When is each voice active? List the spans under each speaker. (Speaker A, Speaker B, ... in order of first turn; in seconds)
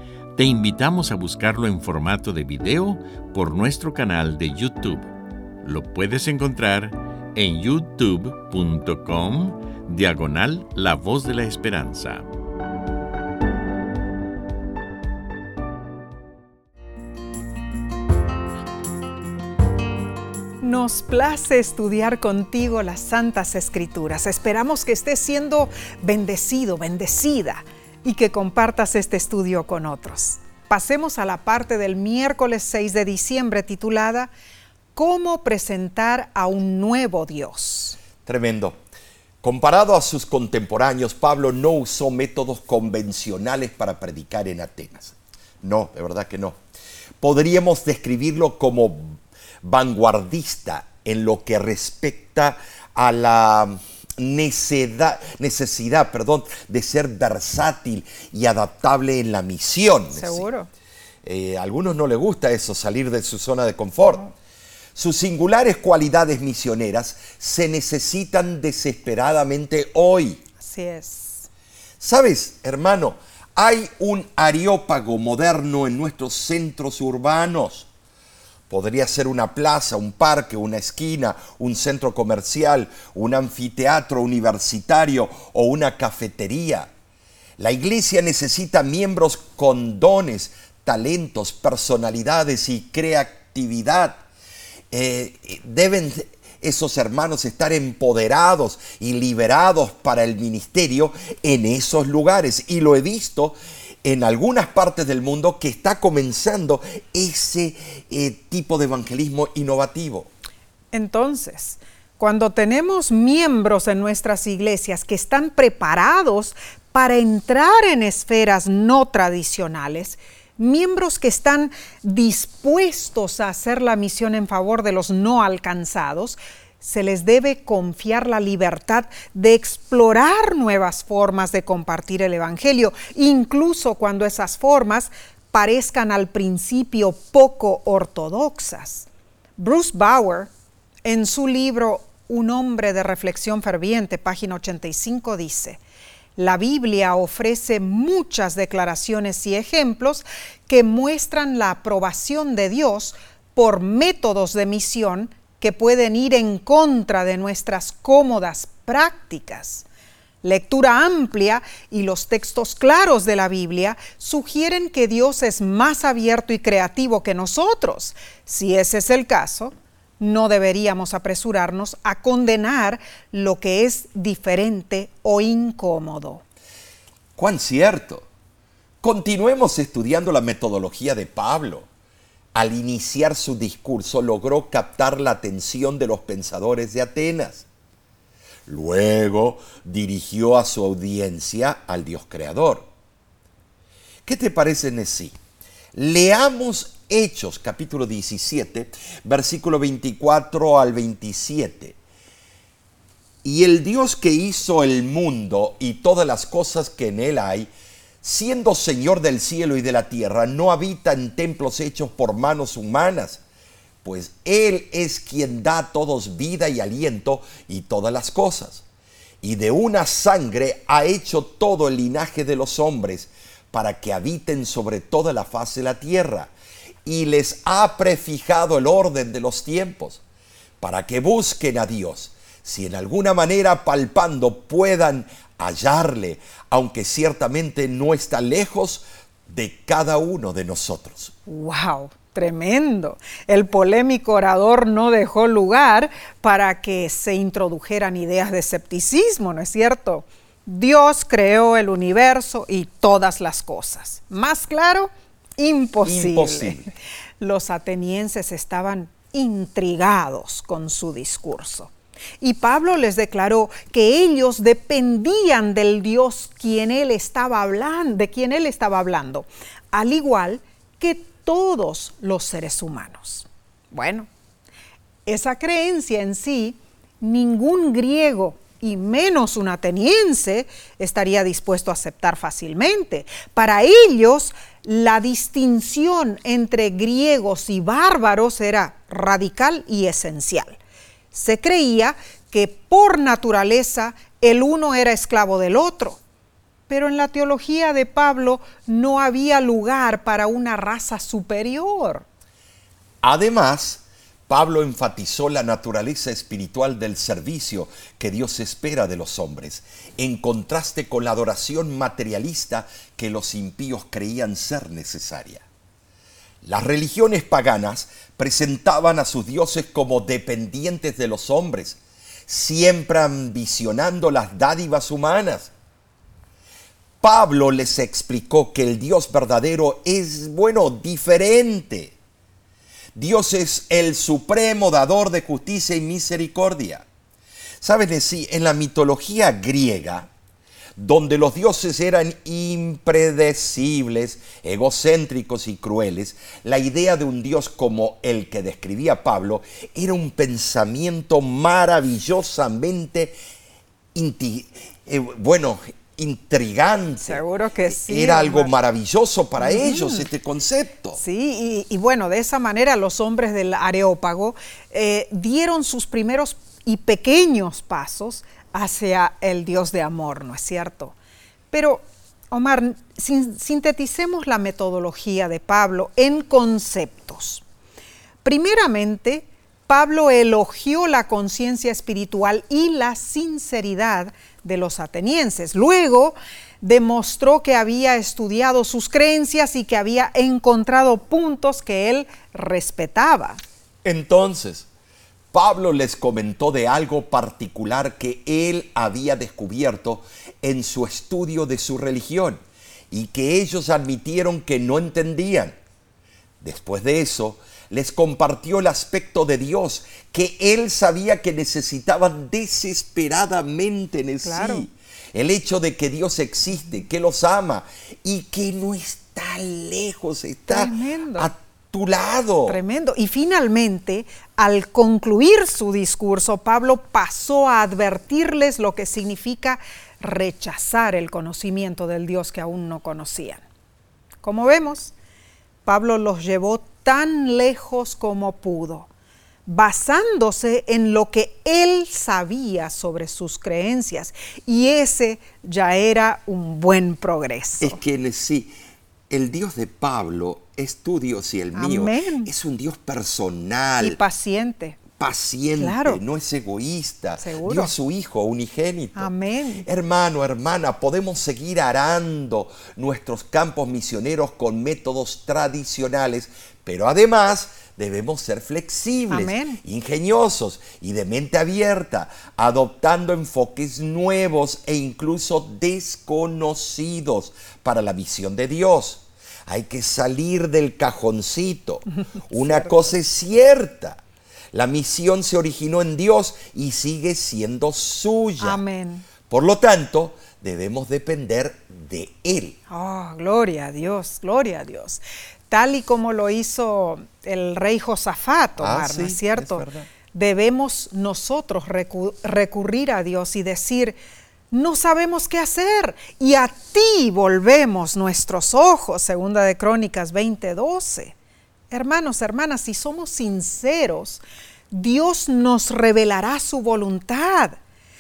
Speaker A: 0.4-5.1, 5.6-12.3
Speaker B: 20.6-34.3, 35.0-38.0, 60.1-60.7, 70.6-71.5, 110.9-139.1, 139.6-140.5, 141.1-145.8, 146.4-159.8, 160.4-176.4, 241.5-256.8, 257.4-274.3, 275.3-290.8, 291.3-296.2, 296.9-302.3, 357.2-358.7, 359.6-360.3, 361.2-371.1, 371.7-377.6, 378.4-393.6, 414.4-414.9, 420.7-421.5, 422.7-433.6, 434.4-435.1, 435.9-439.1, 439.7-448.0, 451.8-452.5, 454.0-455.0, 455.8-456.2, 457.4-457.9, 459.2-459.9, 469.3-469.8, 482.5-483.1, 488.6-489.3, 492.9-504.2, 504.7-511.4, 511.9-517.8
Speaker C: 38.2-38.8, 39.4-46.6, 47.2-60.5, 61.2-64.3, 65.0-70.4, 72.0-77.9, 78.7-86.9, 87.6-94.2, 94.9-110.3, 177.4-178.3, 179.0-181.9, 182.5-187.7, 188.7-192.9, 194.2-195.4, 195.9-202.0, 203.4-207.7, 208.2-213.4, 214.0-218.8, 219.4-226.5, 227.1-230.2, 230.8-241.3, 256.0-256.9, 303.2-315.6, 316.6-325.7, 327.2-332.1, 333.1-337.1, 337.8-340.3, 341.0-353.4, 354.1-361.2, 394.0-394.9, 395.5-405.8, 406.6-422.8, 447.8-448.7, 449.3-454.2, 455.2-459.3, 459.8-484.2, 484.7-488.8, 489.5-492.8, 498.8-500.1